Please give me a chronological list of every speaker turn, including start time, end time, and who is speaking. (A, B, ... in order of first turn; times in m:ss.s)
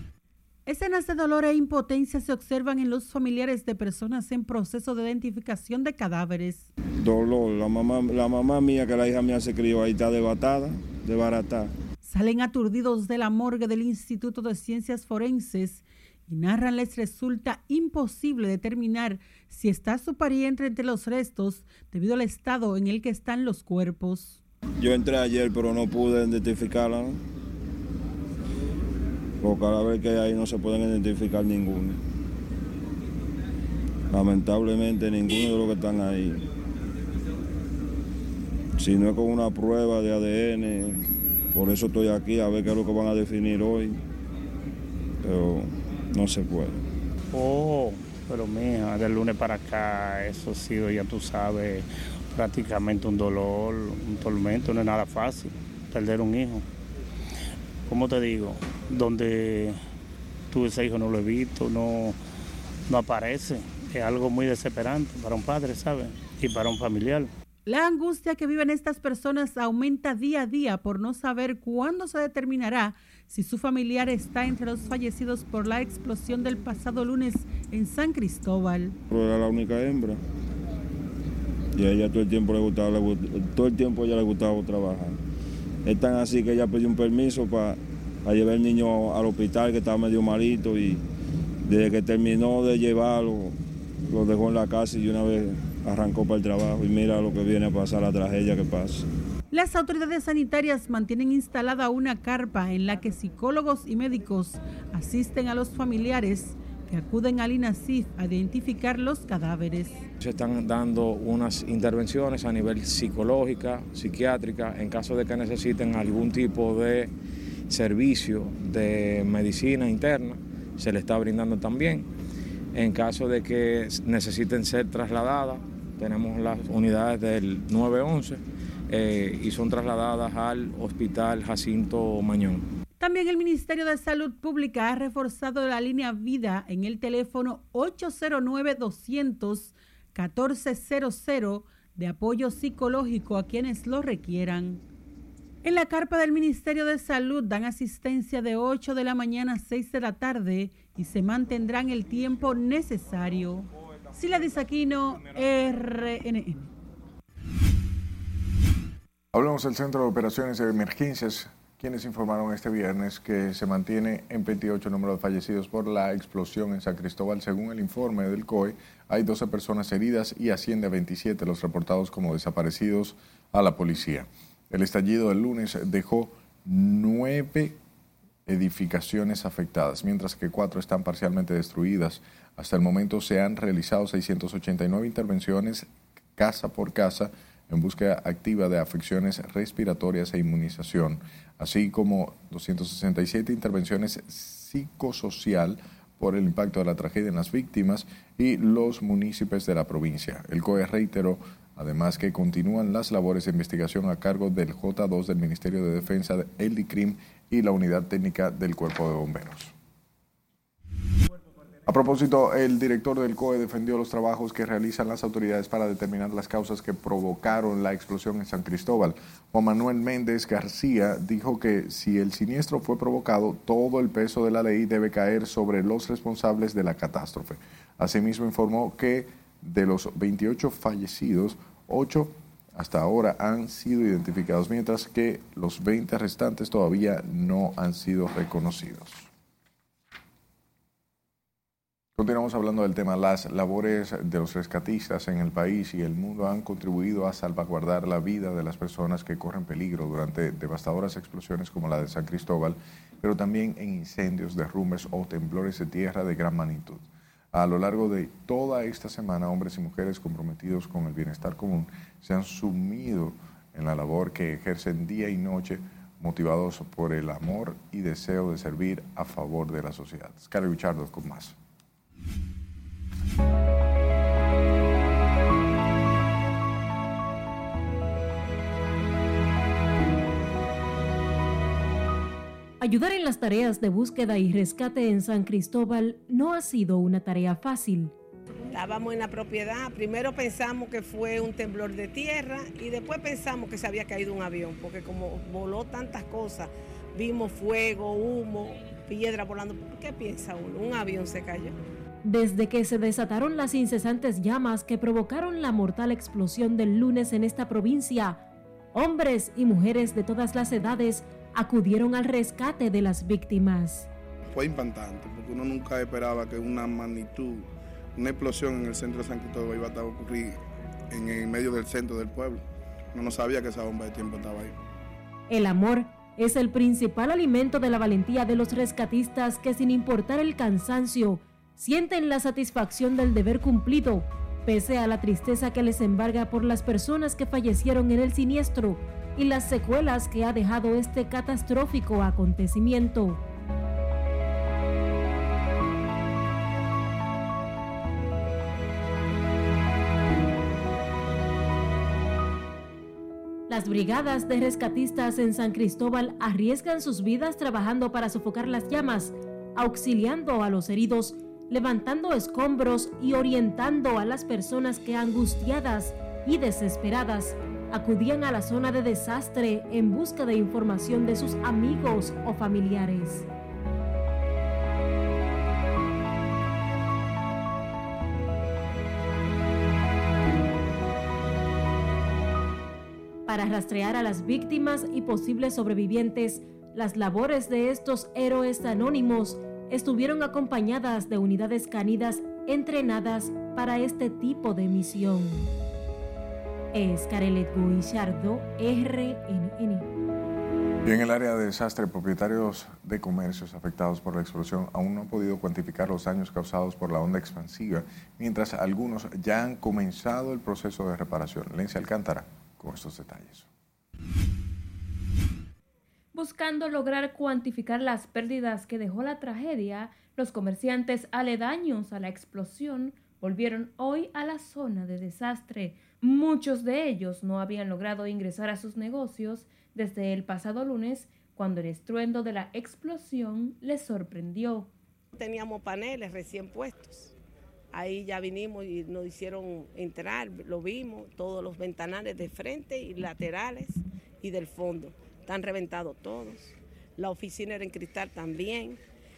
0:00.6-0:06.7 A
0:07.0-0:11.7 B
0:12.0-0:24.4 A
0:24.8-0:27.2 B
0:29.4-0:32.0 B
0:34.1-0:36.5 B
0:38.8-0:41.0 B
0:41.5-0:44.0 B
0:45.2-0:46.8 B
0:47.3-0:51.8 C
0:52.3-0:56.6 C
0:57.9-0:59.8 C
1:00.5-1:02.1 C
1:02.9-1:07.3 C
1:07.7-1:19.0 A
1:19.1-1:20.2 B
1:21.7-1:25.2 B
1:25.8-1:31.0 B
1:31.6-1:33.6 B
1:34.1-1:39.0 B
1:39.5-1:50.0 A
1:50.2-1:57.1 D
1:57.7-2:02.1 D
2:02.7-2:12.6 D
2:13.0-2:24.8 A
2:25.6-2:36.7 A
2:39.3-2:57.8 E
2:58.4-3:29.7 E
3:31.8-3:59.3 E
4:02.2-4:31.6 E
4:42.8-4:48.1 F
4:48.7-5:01.7 G
5:02.2-5:14.1 F
5:14.4-5:20.6 H
5:21.1-5:24.7 H
5:25.5-5:43.4 F
5:53.7-6:13.4 F
6:23.5-6:35.6 F
6:36.9-6:40.1 F
6:41.0-6:53.7 E
6:56.3-7:14.9 I
7:15.3-7:17.3 G
7:17.9-7:29.0 G